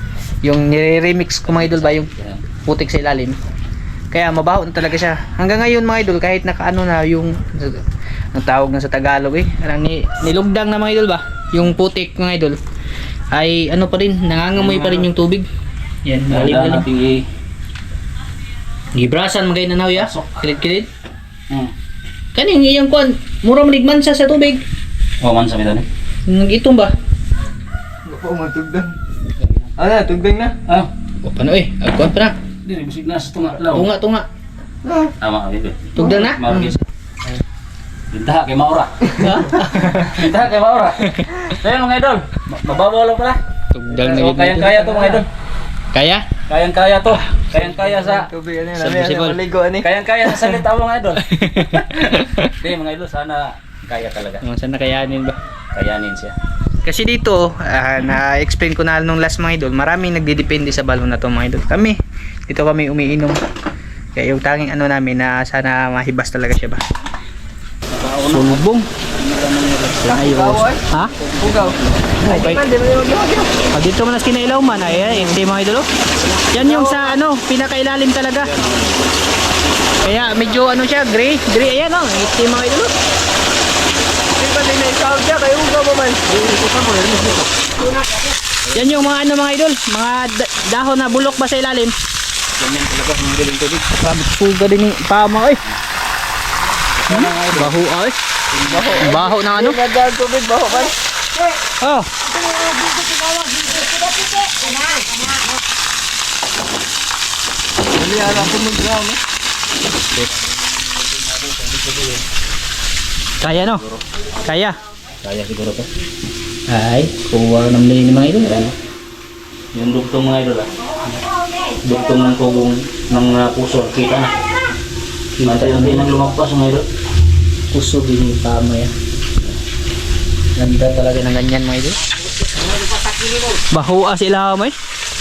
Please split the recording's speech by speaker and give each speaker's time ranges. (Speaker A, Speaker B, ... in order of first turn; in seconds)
Speaker A: 0.4-2.1, 2.6-3.4, 4.1-7.8, 8.3-12.6, 13.3-15.5, 16.1-16.9, 18.9-20.9, 22.4-24.6, 26.3-26.9, 31.2-32.4, 33.7-34.3, 36.0-36.7, 39.2-40.1, 41.0-41.4, 43.7-45.0, 45.9-46.2, 48.8-49.4, 51.3-52.5, 54.4-55.4, 56.8-63.4, 64.2-66.8, 68.3-68.9, 70.1-71.1, 72.3-72.6, 73.7-75.9, 76.5-78.5, 80.0-82.9, 88.7-91.9, 94.0-95.6, 97.1-98.2, 99.0-99.8, 101.8-102.1, 113.4-113.8, 114.4-114.8, 116.7-118.7, 125.4-126.1, 127.7-128.9, 130.6-132.0, 133.7-134.8
Speaker B: 1.5-2.5, 14.6-15.1, 16.3-17.3, 19.9-20.3, 25.2-25.9, 29.4-29.7, 30.7-30.9, 32.6-33.9, 35.2-36.8, 38.1-39.1, 40.0-43.4, 43.9-45.3, 46.5-48.3, 49.8-54.4, 55.7-56.4, 67.9-68.6, 69.2-70.4, 78.4-79.0, 86.3-87.7, 88.7-89.0, 92.5-93.9, 97.0-97.8, 98.7-99.1, 111.2-112.2, 115.2-115.9, 118.5-118.7, 119.7-121.2, 121.8-124.3, 125.4-126.9, 132.6-133.6
Speaker C: 28.1-28.9, 29.8-30.6, 44.7-45.2, 47.5-49.9, 70.1-73.5, 76.6-77.1, 84.4-86.2, 98.6-101.0, 108.0-109.2